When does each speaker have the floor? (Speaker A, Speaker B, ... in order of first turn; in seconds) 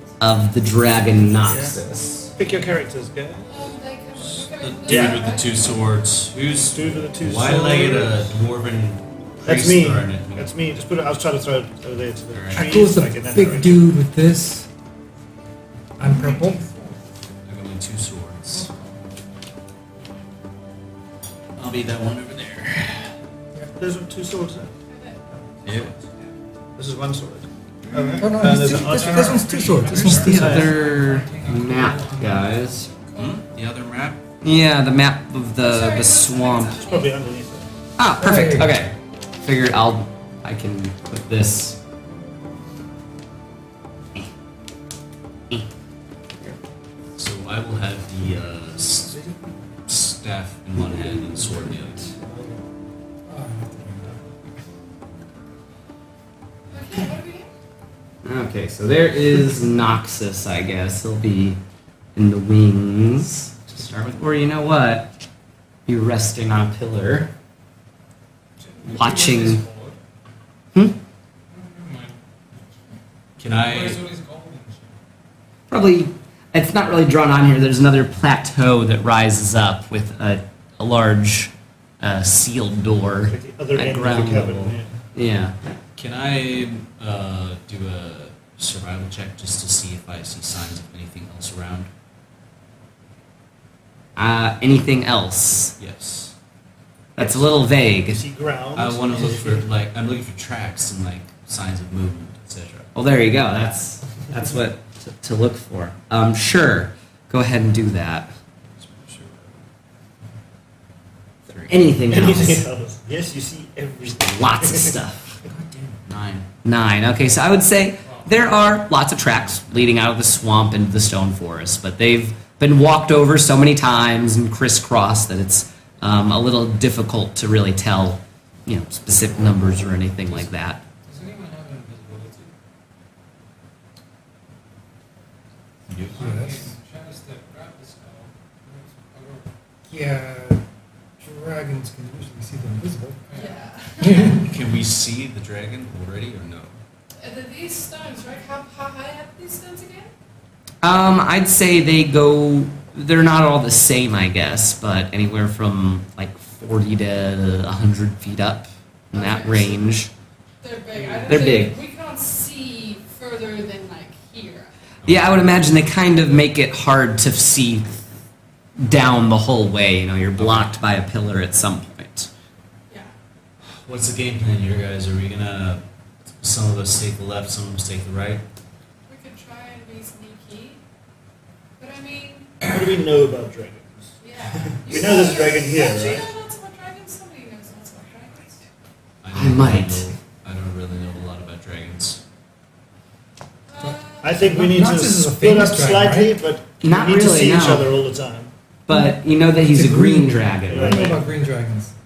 Speaker A: 0.2-2.3, 30.2-32.9, 34.4-36.8, 38.0-41.8, 58.2-61.6, 62.2-65.1, 65.9-67.3, 68.9-69.6, 75.7-85.6, 94.2-95.8, 97.2-98.2, 103.0-108.3, 111.7-112.6, 114.2-115.3, 116.6-130.8, 150.8-160.1, 161.3-161.8, 165.1-167.9, 168.8-172.3, 189.3-190.2, 196.8-197.9, 198.9-201.1
Speaker B: 1.5-1.8, 2.4-3.6, 4.9-5.2, 6.6-8.4, 9.4-13.8, 23.8-24.7, 26.8-30.8, 36.8-37.7, 49.1-49.5, 51.5-52.6, 83.3-85.0, 97.2-99.6, 112.1-115.0, 182.6-184.1, 184.6-186.3, 194.2-198.5, 200.7-201.2
Speaker C: 3.5-5.7, 24.9-26.2, 35.6-37.3, 56.7-57.5, 143.3-144.4, 147.2-150.1, 159.1-159.9, 160.6-164.7, 179.1-180.8, 181.8-182.6, 184.2-188.6, 193.7-194.5
Speaker D: 4.2-10.5, 12.3-12.7, 17.5-18.7, 21.6-23.1, 25.7-26.0, 27.9-29.0, 29.8-30.5, 33.2-34.2, 47.2-49.2, 49.9-52.1, 73.4-74.0, 84.1-84.5, 86.0-91.9, 95.8-96.3, 98.8-102.9, 108.7-109.6, 111.5-111.8, 116.0-116.5, 135.9-136.2, 144.4-146.8, 165.0-165.6, 170.4-170.7, 173.7-175.8, 176.4-178.4, 189.2-192.2
Speaker E: 12.5-14.7, 16.0-16.6, 28.2-30.9, 38.2-38.8, 53.3-54.2, 136.2-136.7, 139.9-140.6, 141.2-143.2, 144.0-144.6, 193.8-196.4, 198.9-201.9
Speaker F: 18.5-18.9, 28.7-33.4, 68.6-70.0, 71.5-73.0, 73.5-75.0, 118.0-118.3, 131.1-132.5, 136.1-139.5, 143.3-143.6